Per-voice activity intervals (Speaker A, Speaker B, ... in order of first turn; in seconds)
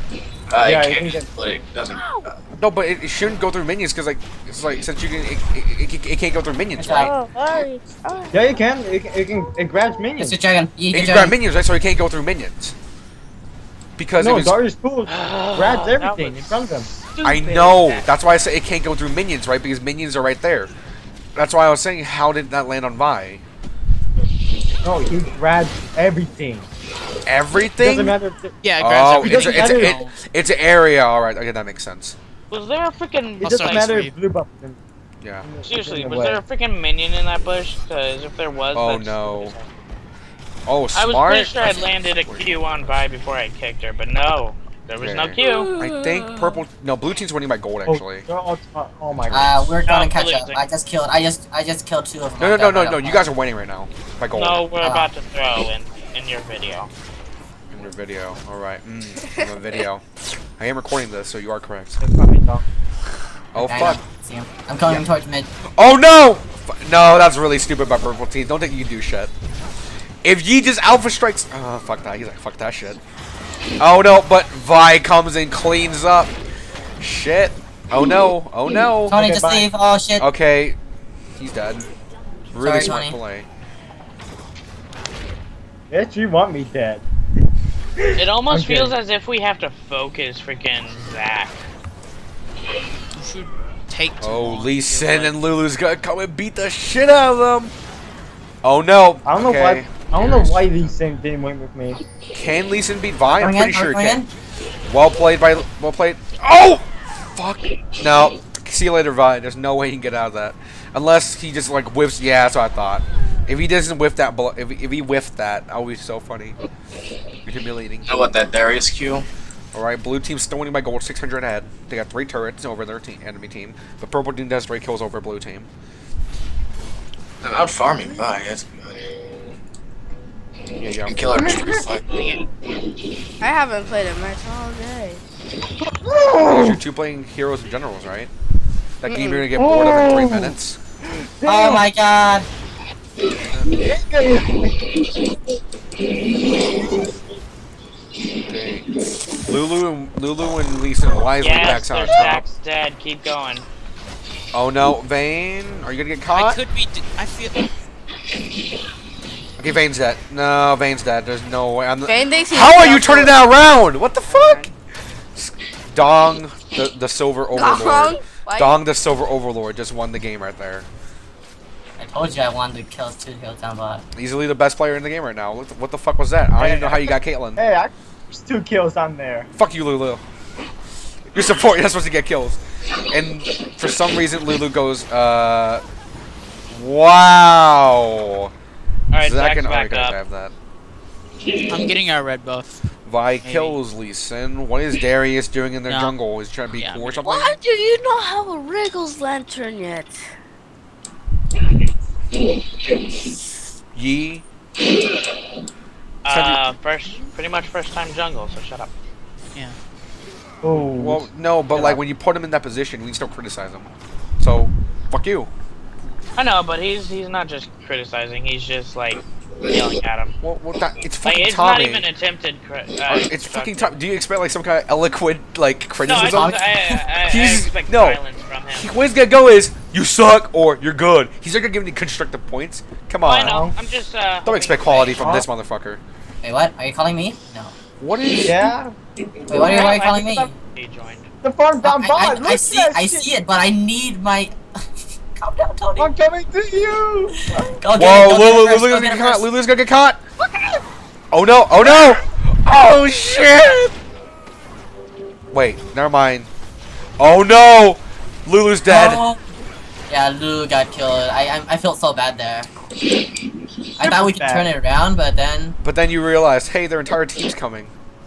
Speaker A: 0.5-2.4, 118.1-119.3, 127.4-129.0, 131.0-132.4
Speaker B: 0.6-1.3, 8.3-10.4, 14.2-16.9, 24.8-26.7, 27.7-28.6, 29.1-30.1, 33.4-34.8, 35.4-36.4, 47.9-49.6, 62.0-62.6, 79.1-79.7, 85.9-87.0, 88.0-89.0, 99.2-102.0, 131.4-131.9, 135.8-136.8, 139.5-141.9, 143.7-144.9, 176.6-179.5, 210.6-212.0, 233.4-233.8, 235.2-235.5, 238.4-238.9, 239.5-240.1, 241.4-243.3, 246.0-247.7, 264.0-264.7
Speaker C: 1.9-2.3, 7.0-8.7, 133.4-135.2, 139.1-139.5, 162.1-163.4, 164.3-164.7, 167.5-168.8, 197.2-200.2
Speaker D: 2.6-7.1, 10.9-12.8, 14.0-14.6, 17.2-20.7, 21.4-23.4, 27.3-28.2, 28.8-32.2, 35.2-35.5, 38.7-39.6, 40.7-42.8, 45.0-48.3, 49.3-49.6, 52.4-54.6, 57.7-60.0, 60.6-62.0, 63.5-64.0, 65.7-69.3, 70.2-73.0, 73.8-76.3, 77.0-79.2, 80.2-80.8, 81.4-81.9, 82.5-83.5, 94.2-97.7, 98.6-100.9, 102.3-104.2, 104.9-116.6, 117.5-118.2, 119.7-125.7, 130.8-131.9, 136.4-138.3, 139.0-140.8, 143.4-143.7, 148.4-148.9, 149.4-152.4, 154.5-156.6, 159.6-164.7, 165.4-170.9, 174.2-177.6, 179.6-180.2, 181.3-185.8, 186.7-188.5, 189.2-190.5, 193.1-197.6, 203.9-204.4, 206.3-206.8, 210.9-215.5, 220.4-222.1, 223.1-228.2, 228.7-233.6, 234.4-236.0, 238.0-238.8, 247.9-250.2, 251.3-253.9, 255.5-256.5, 257.2-259.2, 265.8-267.9
Speaker E: 6.8-7.1, 10.2-11.4, 49.3-53.3, 54.8-55.1, 63.6-65.5, 79.1-80.3, 82.6-83.2, 103.3-104.3, 141.4-142.5, 172.0-174.0, 226.1-226.9, 236.4-237.8, 239.5-240.6, 241.8-244.6, 245.4-246.1, 247.5-249.5, 258.9-259.4, 260.1-262.7, 264.0-265.8
Speaker F: 15.1-18.1, 32.5-34.0, 35.6-39.7, 40.9-45.7, 49.9-50.6, 54.3-56.9, 88.2-91.7, 151.4-153.7, 189.1-190.2, 206.2-208.9, 216.4-220.4, 221.2-224.0, 226.0-228.9, 233.2-235.4, 239.6-241.3
Speaker G: 28.6-30.2, 33.5-34.2, 93.1-95.3, 156.3-157.7, 191.7-192.8, 193.4-193.8, 195.9-196.1, 196.8-197.5